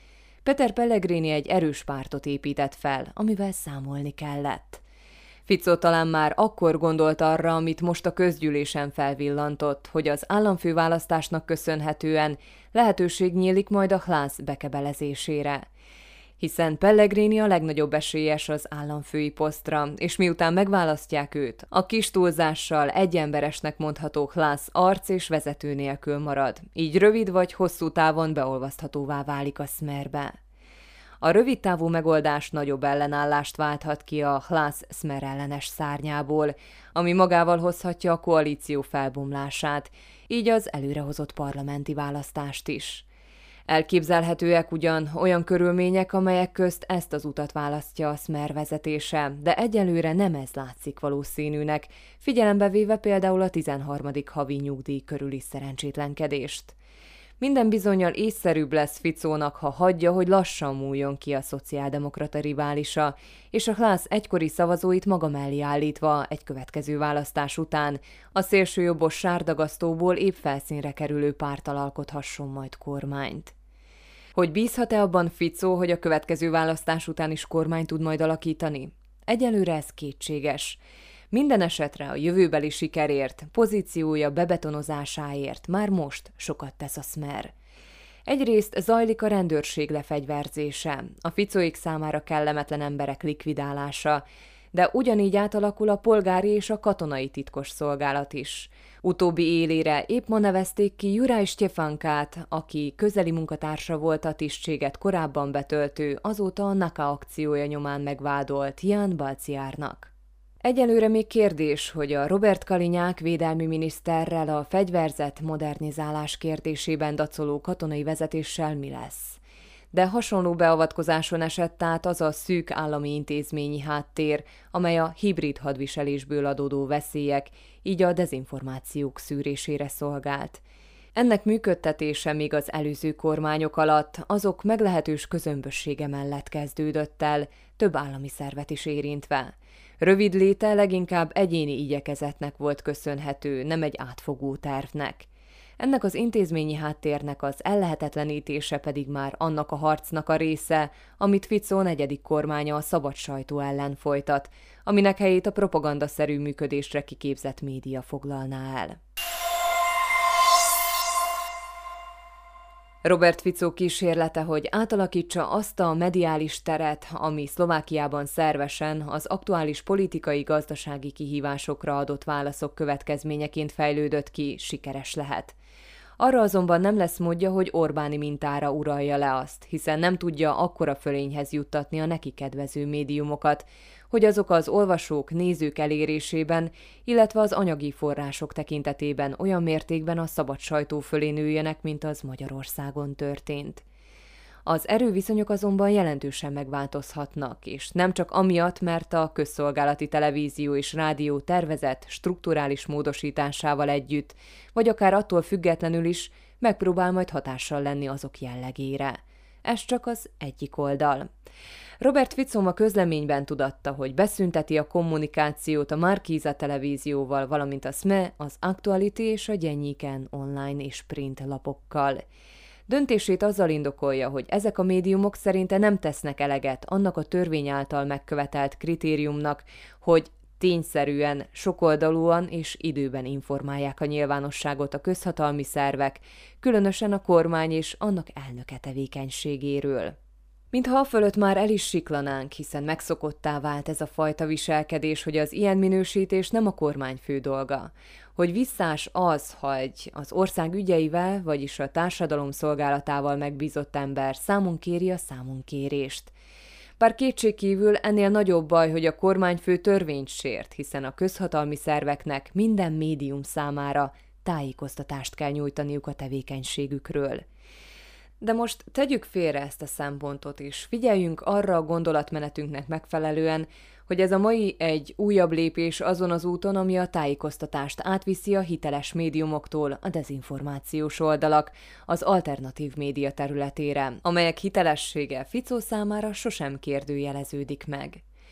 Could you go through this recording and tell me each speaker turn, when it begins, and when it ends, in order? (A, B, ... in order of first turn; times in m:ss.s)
0:00.4-0:04.8 A
0:05.5-0:15.6 A
0:16.4-0:30.4 A
0:31.2-0:43.0 A
0:43.7-0:56.8 A
0:57.4-1:13.5 A
1:14.4-1:20.8 A
1:21.3-1:27.5 A
1:28.3-1:59.4 A
1:59.9-2:10.6 A
2:11.2-2:25.3 A
2:25.8-2:39.0 A
2:43.0-2:55.6 A
2:56.2-3:13.8 A
3:14.6-3:31.3 A
3:32.0-3:42.2 A
3:42.9-4:00.2 A
4:00.7-4:16.3 A
4:17.0-4:27.4 A
4:28.4-4:48.2 A